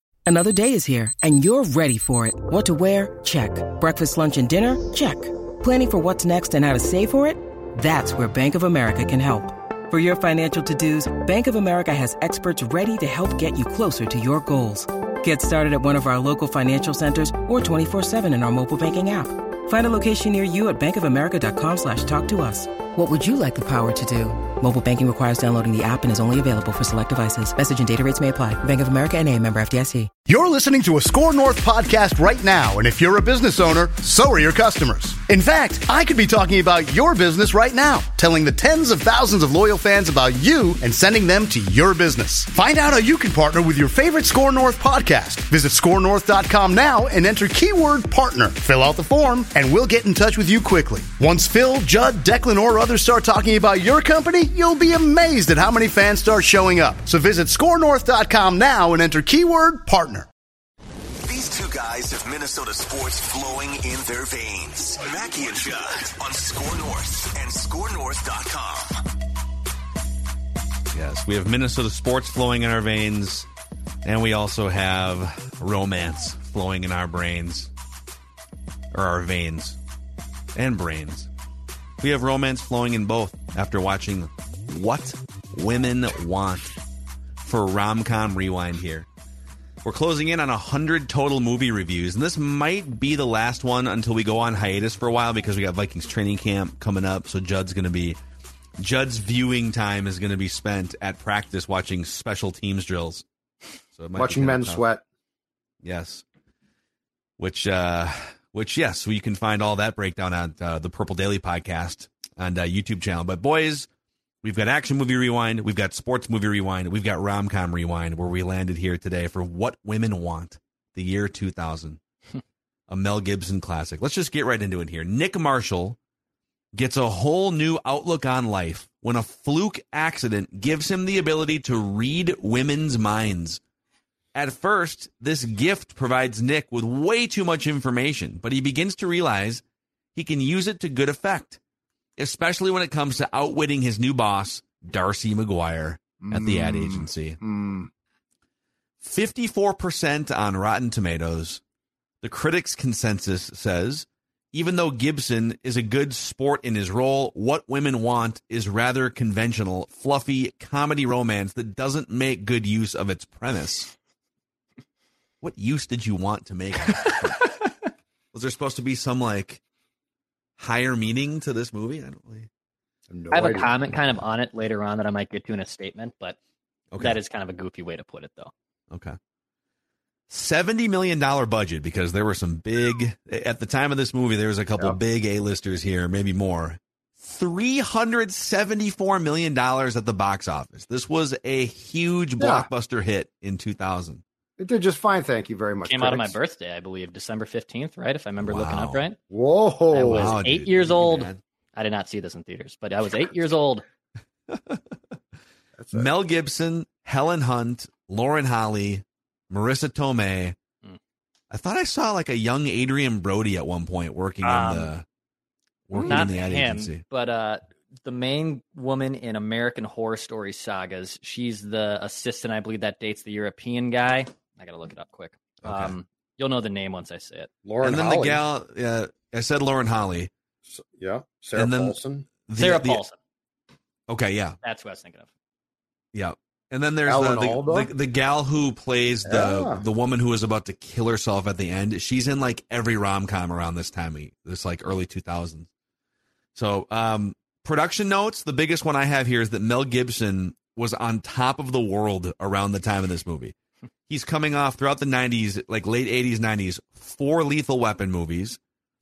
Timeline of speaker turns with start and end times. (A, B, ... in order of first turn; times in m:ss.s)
0:00.3-0:30.1 A
0:30.3-1:00.3 B
1:01.2-1:09.0 C
1:10.9-1:13.5 D
1:14.0-1:17.7 D
1:18.9-1:19.8 D
1:20.6-1:21.3 D
1:22.0-1:26.7 D
1:27.4-1:29.1 D
1:29.8-1:38.2 D
1:38.8-1:43.2 D
1:43.9-1:44.8 D
1:44.2-1:45.0 E
1:45.8-1:46.2 D
1:47.4-1:53.9 D
1:54.4-2:02.0 D
2:02.9-2:06.0 D
2:06.7-2:13.6 D
2:14.4-2:19.6 D
2:20.2-2:21.6 D
2:22.2-2:27.4 D
2:26.2-2:27.9 E
2:29.0-2:31.6 D
2:32.2-2:43.9 D
2:45.4-2:47.6 D
2:48.3-2:49.6 D
2:50.6-2:52.5 D
2:53.1-2:53.8 E
2:53.3-2:56.4 F
2:56.9-2:57.2 D
2:57.0-2:58.5 F
2:58.9-2:59.2 D
3:00.3-3:14.2 D
3:12.4-3:12.7 E
3:14.6-3:16.4 E
3:15.8-3:19.2 F
3:18.4-3:19.0 D
3:19.3-3:20.4 E
3:19.9-3:23.8 F
3:20.1-3:21.4 D
3:24.5-3:25.1 D
3:25.8-3:26.1 E
3:25.9-3:30.6 D
3:31.5-3:35.0 D
3:34.4-3:34.9 F
3:35.9-3:37.0 D
3:35.9-3:36.3 E
3:36.1-3:47.5 F
3:45.6-3:45.9 D
3:47.6-3:48.4 E
3:47.8-3:50.3 D
3:50.7-3:52.3 E
3:51.6-3:53.0 D
3:52.6-3:53.2 F
3:54.1-3:54.6 D
3:54.6-3:55.3 F
3:56.1-4:05.7 D
3:57.1-3:57.9 E
3:59.2-3:59.8 E
4:06.6-4:13.5 D
4:14.1-4:18.6 D